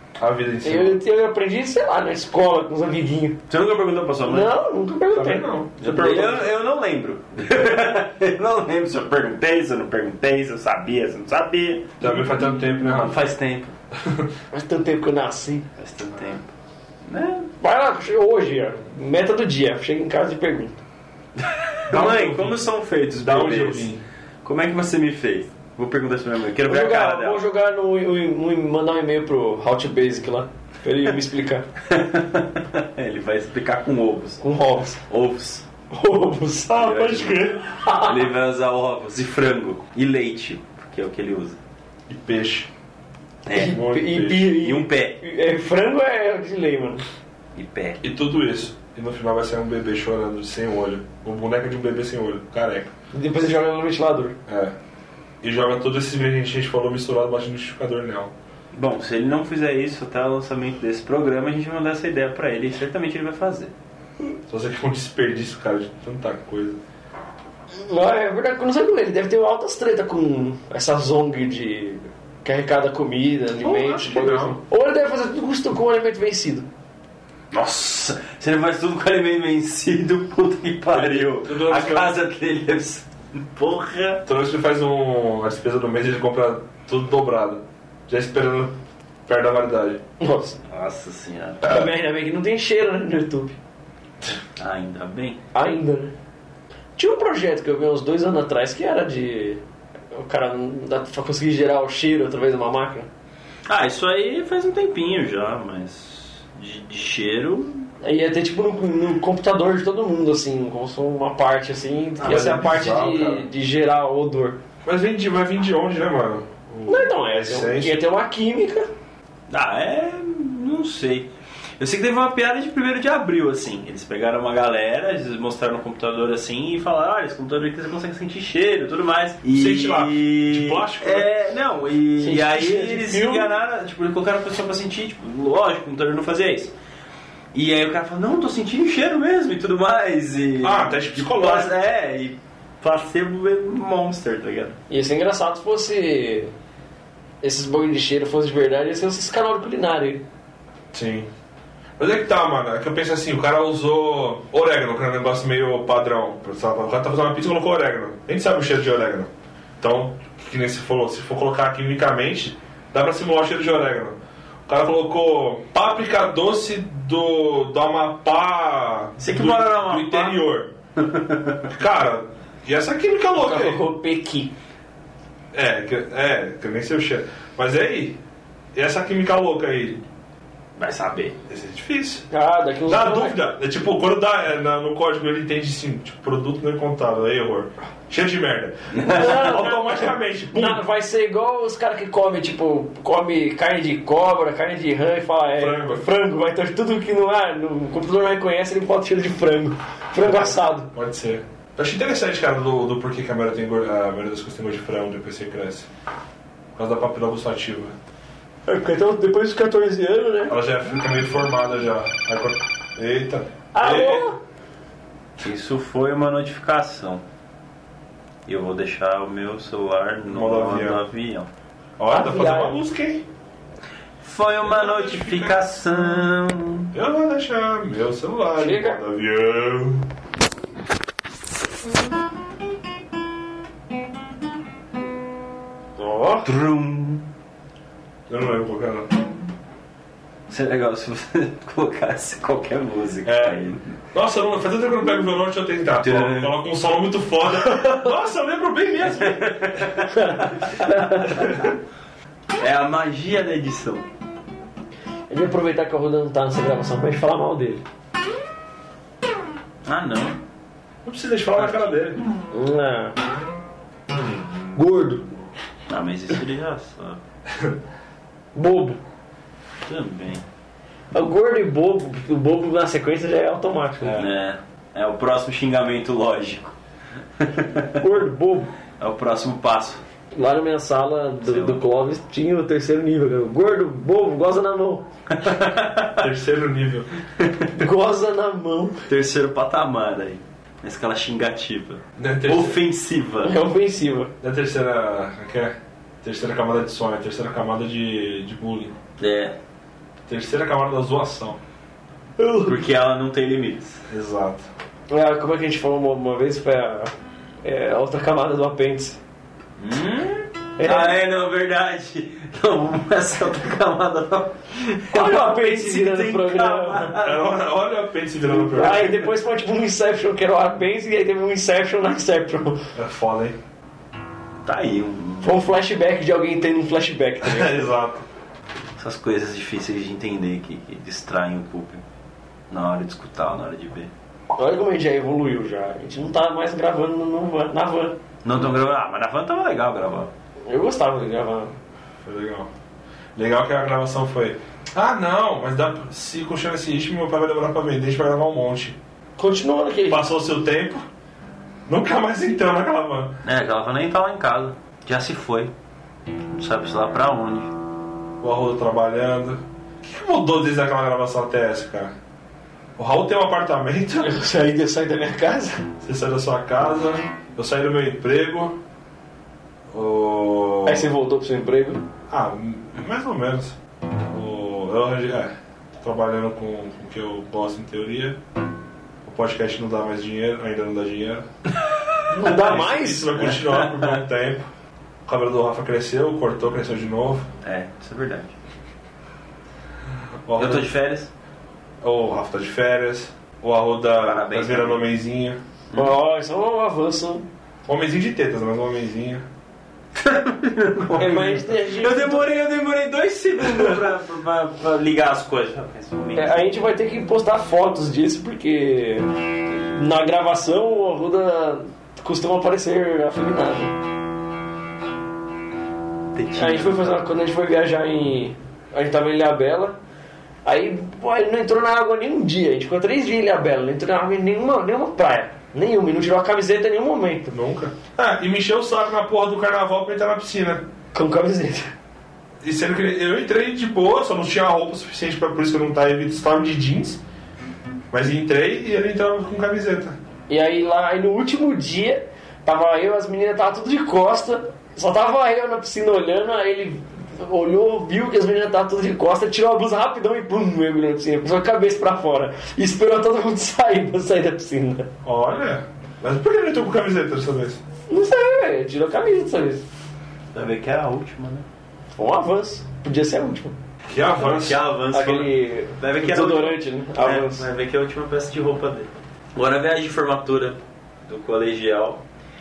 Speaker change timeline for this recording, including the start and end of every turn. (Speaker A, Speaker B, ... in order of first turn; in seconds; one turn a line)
Speaker A: 0.2-1.0
Speaker B: 0.6-3.4
Speaker C: 3.5-4.5
Speaker B: 4.3-6.5
Speaker A: 5.1-6.2
Speaker C: 5.8-12.1
Speaker A: 12.0-13.2
Speaker C: 12.7-13.8
Speaker A: 14.0-14.3
Speaker B: 14.5-15.7
Speaker C: 15.8-16.5
Speaker C: 17.1-17.5
Speaker B: 17.6-20.8
Speaker C: 21.4-23.9
Speaker A: 21.9-22.6
Speaker A: 23.2-24.0
Speaker C: 24.4-27.5
Speaker B: 26.7-31.7
Speaker C: 31.9-34.4
Speaker B: 34.4-35.0
Speaker C: 35.1-35.7
Speaker B: 35.9-38.3
Speaker C: 36.7-41.6
Speaker A: 42.1-42.7
Speaker C: 43.5-43.8
Speaker B: 43.5-47.0
Speaker A: 43.6-44.5
Speaker C: 44.5-45.2
Speaker C: 47.5-48.1
Speaker A: 48.0-52.9
Speaker B: 53.1-54.4
Speaker A: 54.5-54.8
Speaker A: 55.4-58.3
Speaker C: 58.7-63.7
Speaker A: 64.5-66.8
Speaker B: 67.7-76.7
Speaker A: 73.6-74.6
Speaker C: 77.5-84.2
Speaker A: 80.9-82.2
Speaker A: 84.2-90.0
Speaker B: 90.2-90.6
Speaker C: 90.7-91.9
Speaker B: 91.6-93.6
Speaker C: 94.6-95.4
Speaker B: 95.5-96.1
Speaker B: 97.0-99.6
Speaker B: 100.1-103.1
Speaker C: 103.7-107.9
Speaker B: 108.0-114.6
Speaker A: 112.2-113.5
Speaker A: 114.8-118.0
Speaker B: 116.9-118.9
Speaker C: 119.5-136.7
Speaker A: 129.5-131.3
Speaker B: 132.2-133.5
Speaker C: 137.5-144.8
Speaker A: 140.6-141.7
Speaker B: 144.9-146.5
Speaker B: 147.4-150.2
Speaker A: 150.9-151.3
Speaker A: 152.0-170.7
Speaker C: 169.2-170.4
Speaker C: 171.0-171.7
Speaker A: 171.7-173.8
Speaker B: 173.4-174.5
Speaker A: 175.5-178.2
Speaker A: 178.8-180.0
Speaker C: 180.8-181.4
Speaker A: 181.5-182.3
Speaker B: 182.3-183.4
Speaker A: 182.9-190.8
Speaker C: 189.0-189.4
Speaker B: 189.1-200.9
Speaker A: 195.6-196.0
Speaker A: 200.2-205.9
Speaker A: 206.8-208.0
Speaker B: 208.7-210.6
Speaker A: 210.5-214.3
Speaker B: 213.7-214.4
Speaker C: 215.4-217.2
Speaker C: 218.5-221.5
Speaker A: 220.3-221.0
Speaker A: 222.0-223.2
Speaker B: 222.1-222.8
Speaker C: 224.2-226.9
Speaker A: 224.6-225.7
Speaker A: 226.9-230.1
Speaker B: 228.6-229.0
Speaker B: 236.0-236.5
Speaker C: 236.4-237.3
Speaker A: 238.3-239.1
Speaker C: 240.5-243.9
Speaker A: 243.2-243.6
Speaker A: 244.1-249.9
Speaker C: 246.0-246.6
Speaker C: 249.1-251.5
Speaker B: 250.1-251.4
Speaker C: 252.6-254.1
Speaker B: 255.3-257.8
Speaker C: 259.9-260.4
Speaker A: 261.0-262.2
Speaker C: 261.6-262.0
Speaker B: 262.5-263.2
Speaker B: 264.8-265.2
Speaker C: 265.9-267.2
Speaker B: 268.6-269.0
Speaker C: 269.8-270.4
Speaker B: 271.1-274.2
Speaker C: 274.1-276.8
Speaker C: 277.4-278.0
Speaker B: 278.0-278.7
Speaker C: 279.0-280.0
Speaker B: 280.3-285.1
Speaker C: 281.4-281.8
Speaker C: 285.3-286.3
Speaker A: 286.2-287.1
Speaker C: 287.4-287.7
Speaker B: 287.8-289.1
Speaker C: 289.1-293.6
Speaker A: 292.2-292.8
Speaker B: 293.4-294.3
Speaker A: 294.4-298.9
Speaker C: 299.2-299.6
Speaker A: 300.3-301.6
Speaker B: 302.4-302.8
Speaker C: 302.6-304.0
Speaker A: 304.1-304.7
Speaker B: 305.1-307.1
Speaker B: 307.6-309.2
Speaker C: 309.8-317.5
Speaker B: 310.8-311.1
Speaker B: 315.1-317.2
Speaker A: 317.2-319.3
Speaker B: 318.5-322.8
Speaker A: 322.9-323.6
Speaker C: 324.6-325.7
Speaker B: 325.4-327.9
Speaker A: 327.4-328.2
Speaker C: 329.0-332.0
Speaker C: 332.7-334.1
Speaker B: 334.6-338.2
Speaker C: 338.4-340.3
Speaker B: 340.7-341.7
Speaker A: 342.2-342.7
Speaker A: 343.4-349.0
Speaker B: 349.4-350.3
Speaker A: 350.1-351.1
Speaker A: 351.9-353.4
Speaker C: 353.4-355.7
Speaker C: 356.5-357.7
Speaker A: 358.4-362.1
Speaker A: 363.0-364.3
Speaker B: 364.2-365.9
Speaker A: 366.0-368.8
Speaker A: 369.9-371.1
Speaker B: 370.9-372.0
Speaker A: 372.3-378.4
Speaker A: 379.2-381.5
Speaker B: 382.3-383.4
Speaker A: 382.4-384.7
Speaker C: 383.4-384.2
Speaker A: 385.3-387.5
Speaker C: 387.6-388.6
Speaker A: 390.5-390.9
Speaker C: 390.6-391.3
Speaker A: 392.0-395.6
Speaker C: 394.2-395.1
Speaker B: 395.9-397.5
Speaker A: 397.9-399.5
Speaker C: 400.1-406.7
Speaker B: 401.2-402.5
Speaker B: 406.4-413.9
Speaker C: 416.3-417.2
Speaker B: 416.6-420.0
Speaker B: 420.6-427.5
Speaker A: 427.5-430.9
Speaker B: 431.1-431.9
Speaker A: 432.6-437.2
Speaker A: 438.1-440.2
Speaker B: 440.5-455.1
Speaker A: 455.2-457.8
Speaker B: 458.1-459.8
Speaker C: 460.5-461.7
Speaker B: 462.1-463.8
Speaker A: 464.1-464.8
Speaker C: 464.4-472.2
Speaker B: 465.1-467.6